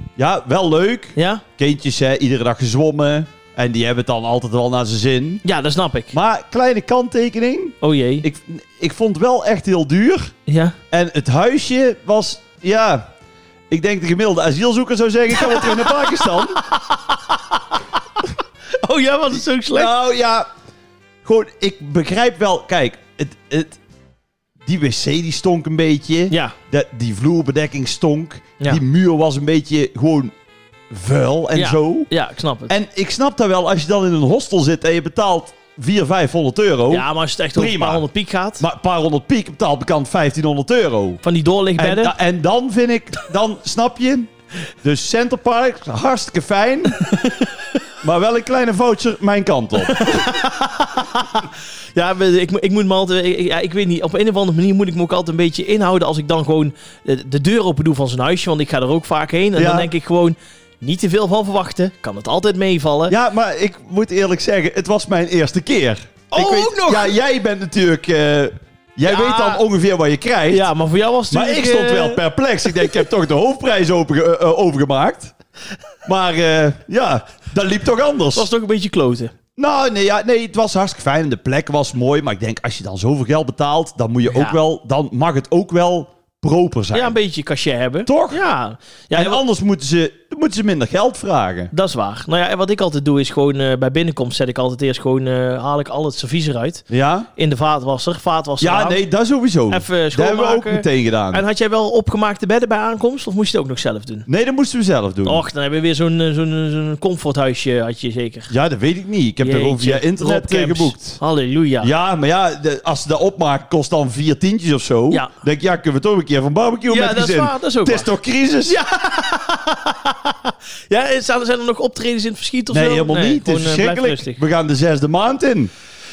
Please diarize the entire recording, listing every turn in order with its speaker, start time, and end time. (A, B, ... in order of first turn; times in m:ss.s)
0:00.2-0:05.4 A
0:01.2-0:01.4 B
0:05.4-0:06.1 B
0:06.1-0:10.3 A
0:07.8-0:08.2 B
0:10.5-0:10.8 B
0:10.9-0:13.1 A
0:13.7-0:16.6 A
0:15.4-0:17.6 B
0:18.8-0:19.9 B
0:19.7-0:20.5 A
0:21.2-0:23.8 A
0:24.7-0:30.3 A
0:26.3-0:26.6 B
0:30.9-0:32.1 A
0:31.6-0:32.7 B
0:32.7-0:38.0 A
0:36.9-0:38.6 B
0:38.6-0:41.2 A
0:41.2-0:42.1 B
0:41.8-0:44.3 A
0:44.8-0:47.0 A
0:47.1-0:47.4 B
0:48.0-0:50.0 A
0:49.8-1:03.1 B
0:59.6-0:59.9 A
1:03.1-1:10.7 A
1:06.3-1:07.2 B
1:09.0-1:09.6 B
1:10.5-1:12.2 B
1:11.3-1:15.3 A
1:16.0-1:18.5 A
1:18.3-1:19.3 B
1:19.6-1:27.2 A
1:24.3-1:24.6 B
1:26.9-1:29.4 B
1:28.0-1:28.4 A
1:29.1-1:31.7 A
1:31.7-1:36.8 B
1:36.9-1:37.3 A
1:37.4-1:39.0 B
1:38.6-1:41.4 A
1:39.7-1:44.3 B
1:44.3-1:45.4 A
1:45.2-1:48.5 B
1:48.5-1:51.2 A
1:49.4-1:51.9 B
1:51.8-1:58.8 A
1:56.9-1:58.1 B
1:58.7-2:04.4 B
2:02.7-2:05.7 A